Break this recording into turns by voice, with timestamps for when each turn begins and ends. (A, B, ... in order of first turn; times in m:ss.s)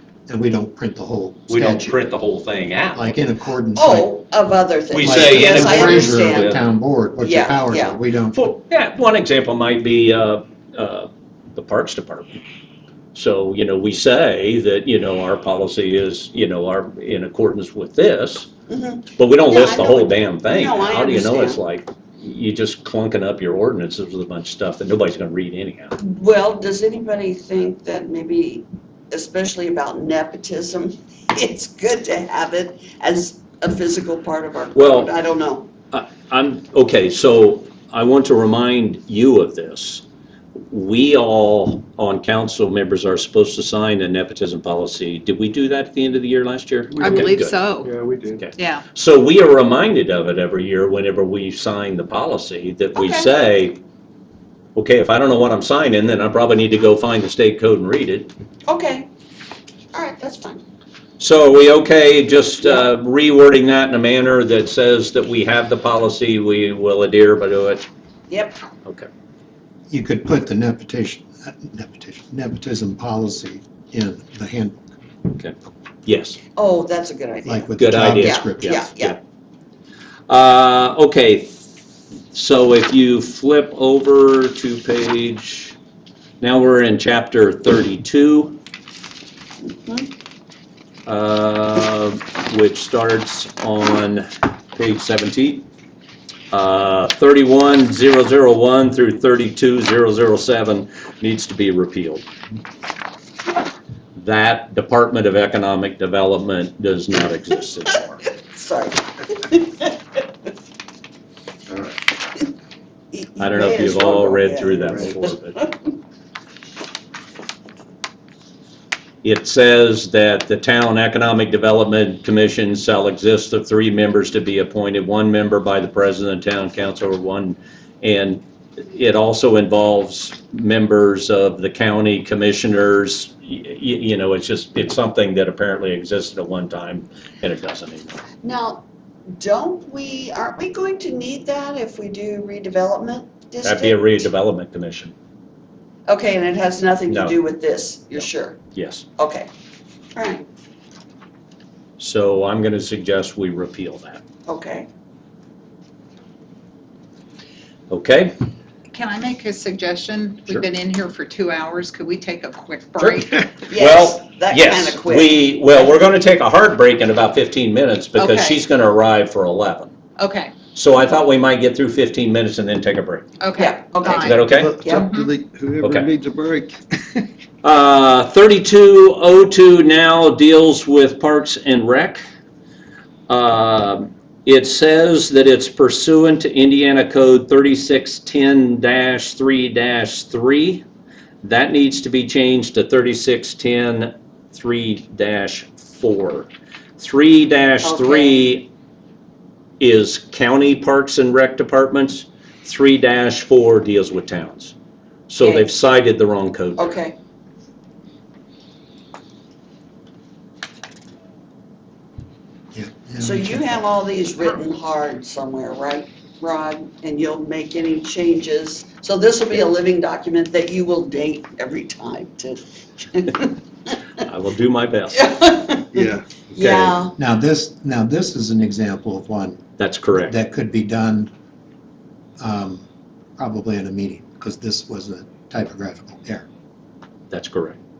0:00.3-0:02.0 A
0:01.5-0:03.1 B
0:02.9-0:04.1 A
0:03.7-0:06.7 C
0:04.9-0:06.6 B
0:05.0-0:08.4 A
0:07.2-0:08.0 C
0:08.3-0:12.4 B
0:13.1-0:18.5 B
0:18.7-0:21.6 C
0:19.2-0:25.9 B
0:26.0-0:35.7 C
0:34.7-0:35.1 B
0:35.9-0:40.0 B
0:40.7-0:47.6 B
0:46.9-0:48.5 D
0:47.0-0:47.9 E
0:48.4-0:53.8 B
0:48.6-0:48.8 E
0:54.7-0:58.3 B
0:58.7-0:59.1 C
0:59.9-1:00.6 C
1:01.2-1:07.8 B
1:02.6-1:02.9 C
1:08.3-1:08.6 C
1:09.9-1:14.8 A
1:16.0-1:16.4 B
1:16.5-1:19.2 C
1:17.4-1:18.8 A
1:17.8-1:19.2 B
1:20.3-1:21.6 B
1:22.3-1:25.7 B
1:26.4-1:28.6 B
1:29.6-1:30.1 C
1:31.0-1:35.6 B
1:36.5-1:42.2 B
1:44.2-1:48.3 B
1:48.4-1:50.2 C
1:51.7-1:52.0 D
1:53.1-1:56.0 C
1:53.4-1:55.6 B
1:59.2-2:18.2 B
2:18.4-2:18.8 C
2:19.4-2:24.3 C
2:23.6-2:25.1 B
2:26.1-2:28.6 C
2:27.1-2:27.4 B
2:28.2-2:29.0 B
2:29.2-2:29.5 C
2:30.1-2:30.4 C
2:32.0-2:34.2 B
2:34.5-2:34.9 C
2:37.9-2:38.4 B
2:38.9-2:43.5 E
2:43.0-2:49.9 B
2:43.7-2:46.0 C
2:48.1-2:48.6 E
2:50.2-2:50.5 E
2:50.7-2:53.3 B
2:53.4-2:55.3 E
2:53.6-2:55.1 C
2:54.1-2:54.8 B
2:54.5-2:56.8 D
2:55.8-2:56.1 B
2:57.6-3:02.2 B
3:03.3-3:10.8 B
3:11.4-3:18.7 B
3:17.8-3:18.4 C
3:19.8-3:24.7 B
3:25.3-3:27.0 B
3:25.4-3:25.7 C
3:26.8-3:27.2 C
3:32.7-3:33.8 A
3:33.2-3:43.6 C
3:44.2-3:45.3 B
3:45.1-3:47.2 C
3:45.9-3:46.2 D
3:46.5-3:47.0 B
3:47.2-3:49.6 A
3:49.8-3:50.4 B
3:50.1-3:51.3 A
3:52.4-3:52.8 A
3:53.4-3:56.5 A
3:57.3-3:57.8 B